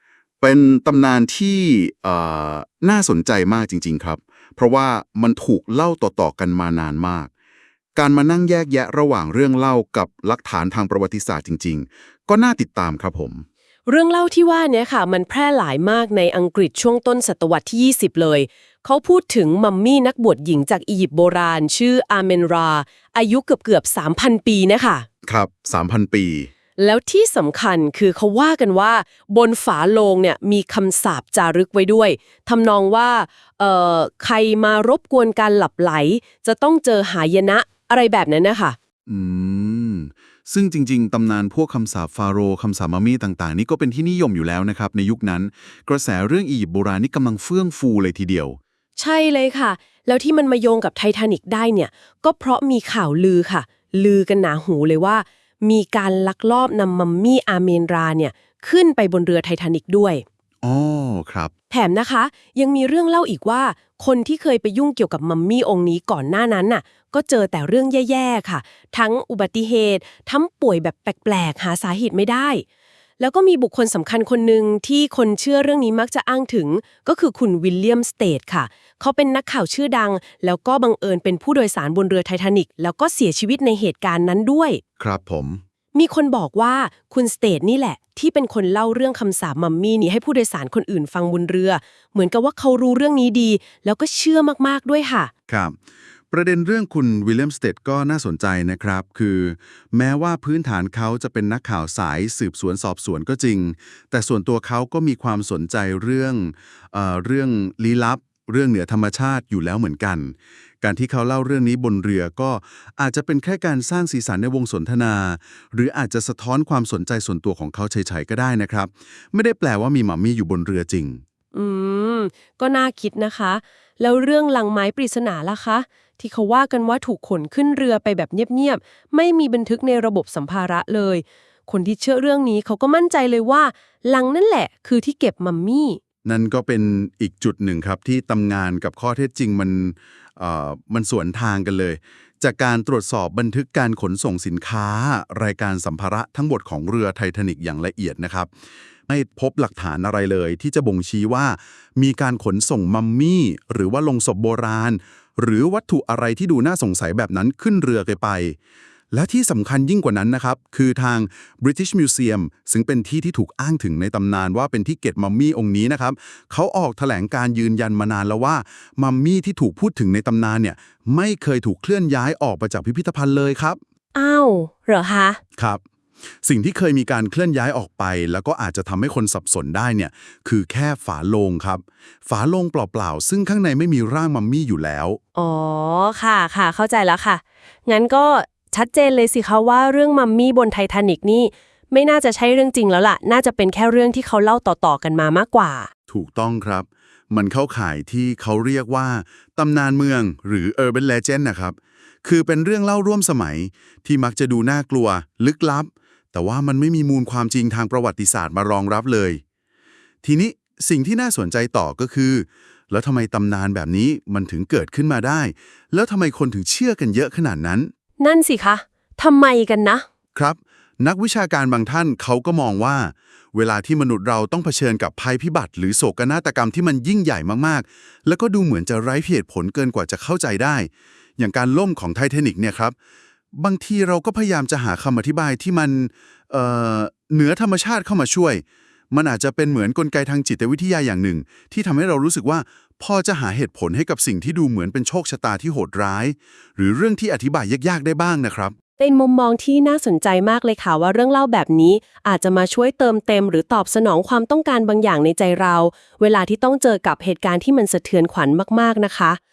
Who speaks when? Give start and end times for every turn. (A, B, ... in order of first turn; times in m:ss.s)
0:00.4-0:07.3 A
0:08.0-0:13.4 A
0:13.9-0:25.1 B
0:25.3-0:26.5 A
0:26.8-0:38.8 B
0:39.1-0:48.6 A
0:49.0-1:00.2 B
1:00.6-1:01.5 A
1:01.7-1:12.6 B
1:13.2-1:24.8 B
1:25.0-1:25.6 A
1:25.9-1:35.3 B
1:35.5-1:35.8 A
1:36.3-2:01.2 A
2:01.5-2:16.0 B
2:16.2-2:28.5 A
2:29.1-2:38.6 A
2:39.1-2:53.8 A
2:54.1-2:55.4 B
2:55.6-2:55.8 A
2:56.4-3:05.2 A
3:05.4-3:15.9 B
3:16.1-3:29.4 A
3:30.2-3:37.9 A
3:38.2-3:40.0 B
3:40.4-3:52.9 A
3:53.5-4:08.7 A
4:09.0-4:19.4 B